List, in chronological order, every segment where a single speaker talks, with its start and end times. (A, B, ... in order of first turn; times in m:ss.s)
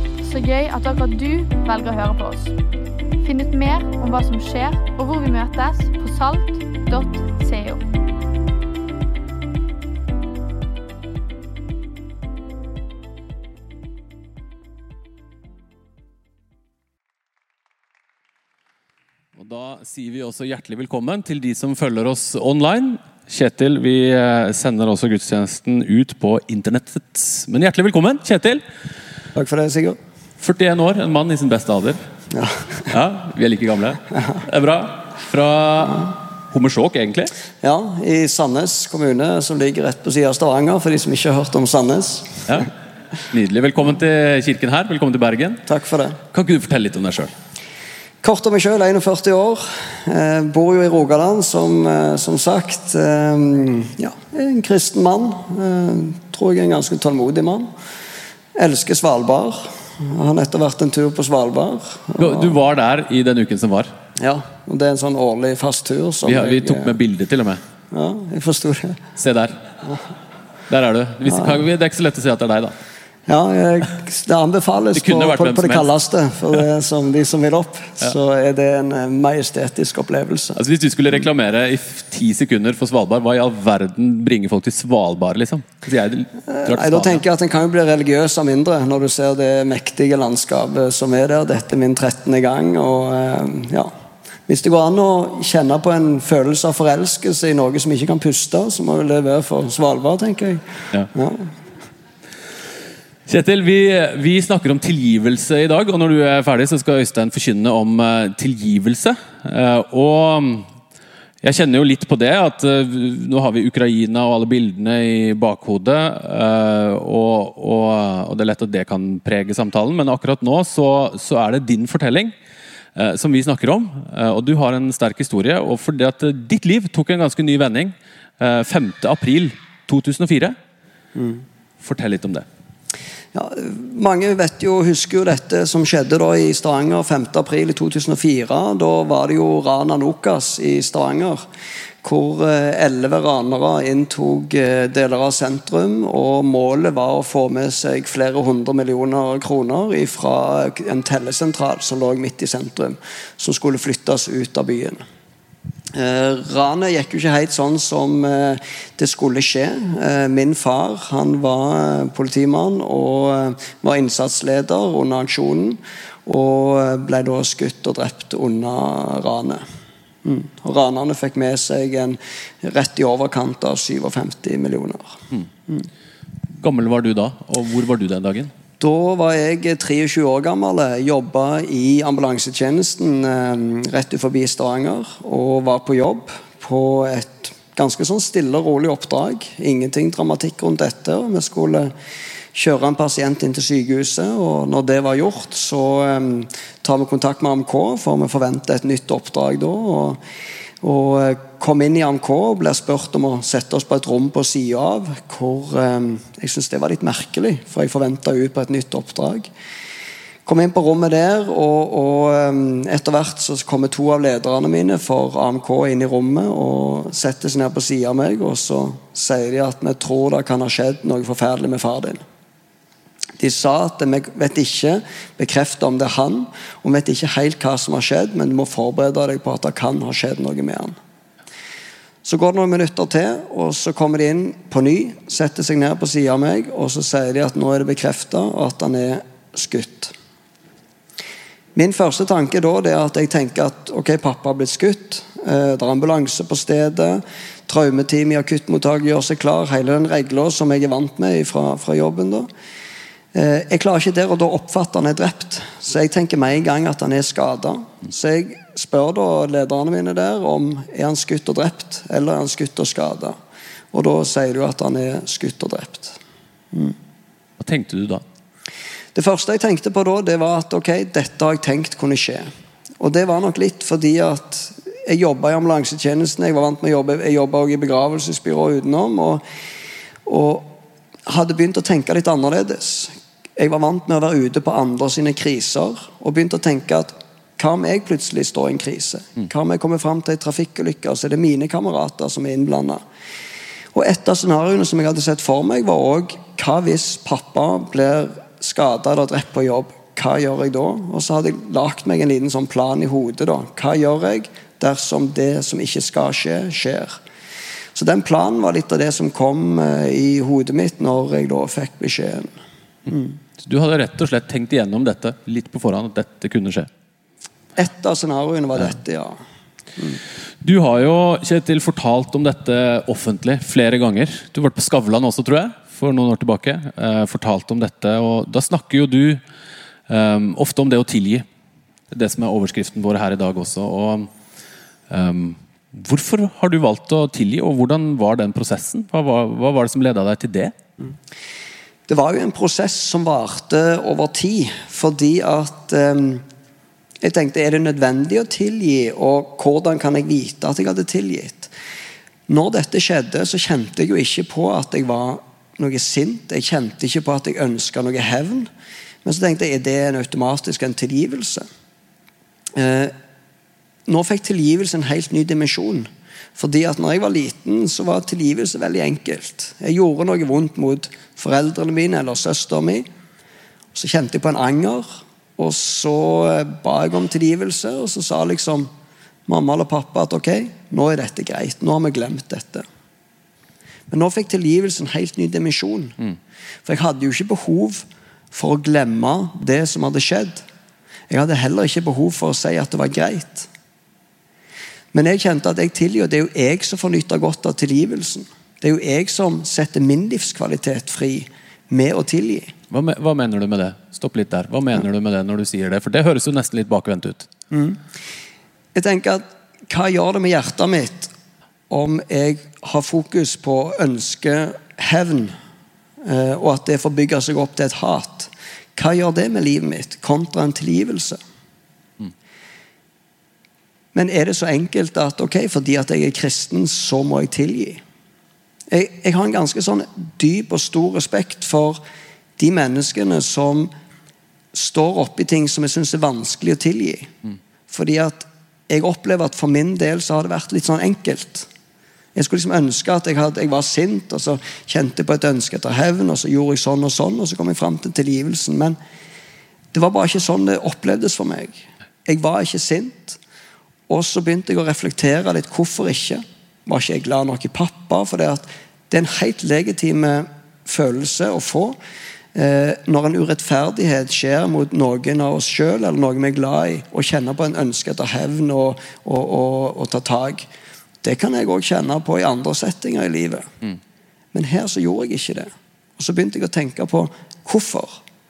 0:00.2-0:02.5 A
0:03.2-0:07.8 A
0:19.4-0:28.6 B
0:29.3-0:30.0 C
0:30.4-0:32.0 B
0:32.3-0:32.9 C
0:32.8-0:37.3 B
0:37.6-0:42.7 C
0:43.3-0:45.6 B
0:45.6-0:46.2 C
0:46.3-0:47.3 B
0:48.2-0:57.7 C
0:58.5-1:02.6 C
1:02.2-1:03.9 B
1:04.2-1:07.0 C
1:06.2-1:07.6 B
1:07.9-1:09.0 C
1:09.2-1:09.6 B
1:10.7-1:12.8 B
1:11.2-1:11.6 C
1:13.3-1:20.6 C
1:14.9-1:15.9 B
1:20.6-1:27.2 B
1:26.5-1:33.9 C
1:34.5-1:41.5 C
1:43.2-1:50.7 B
1:51.4-2:02.3 B
2:02.9-2:10.6 B
2:11.1-2:11.4 C
2:11.8-2:12.4 B
2:13.3-2:21.4 C
2:22.0-2:35.0 C
2:35.9-2:49.6 C
2:50.2-2:55.9 C
2:56.6-2:58.5 B
2:58.8-3:11.9 C
3:12.5-3:20.2 C
3:20.8-3:29.5 C
3:30.4-3:42.2 C
3:43.4-3:51.0 C
3:52.2-4:00.1 C
4:01.7-4:12.5 C
4:13.3-4:23.4 C
4:23.9-4:26.2 C
4:27.6-4:28.2 B
4:29.1-4:39.4 C
4:40.2-4:53.0 C
4:53.9-5:07.2 C
5:07.9-5:12.5 C
5:13.1-5:13.3 C
5:13.6-5:16.9 B
5:17.8-5:19.4 C
5:20.6-5:29.4 B
5:30.1-5:31.4 B
5:32.1-5:34.3 B
5:35.1-5:40.7 B
5:42.1-5:46.4 C
5:47.2-5:51.7 C
5:52.5-5:58.7 C
5:59.2-6:01.6 C
6:02.7-6:03.1 C
6:04.1-6:13.0 C
6:13.9-6:18.9 C
6:19.4-6:22.8 C
6:24.1-6:26.2 C
6:26.8-6:30.6 C
6:31.3-6:33.7 C
6:35.1-6:42.7 C
6:42.9-6:47.5 B
6:47.7-6:48.0 C
6:48.9-6:51.3 C
6:51.9-6:55.5 C
6:56.2-7:01.4 C
7:04.1-7:08.0 C
7:08.9-7:12.0 C
7:12.6-7:13.9 C
7:14.7-7:17.3 C
7:17.9-7:21.7 C
7:22.3-7:29.0 C
7:29.9-7:33.4 C
7:34.1-7:42.0 C
7:42.5-7:50.7 C
7:51.2-7:53.7 C
7:54.5-7:58.2 C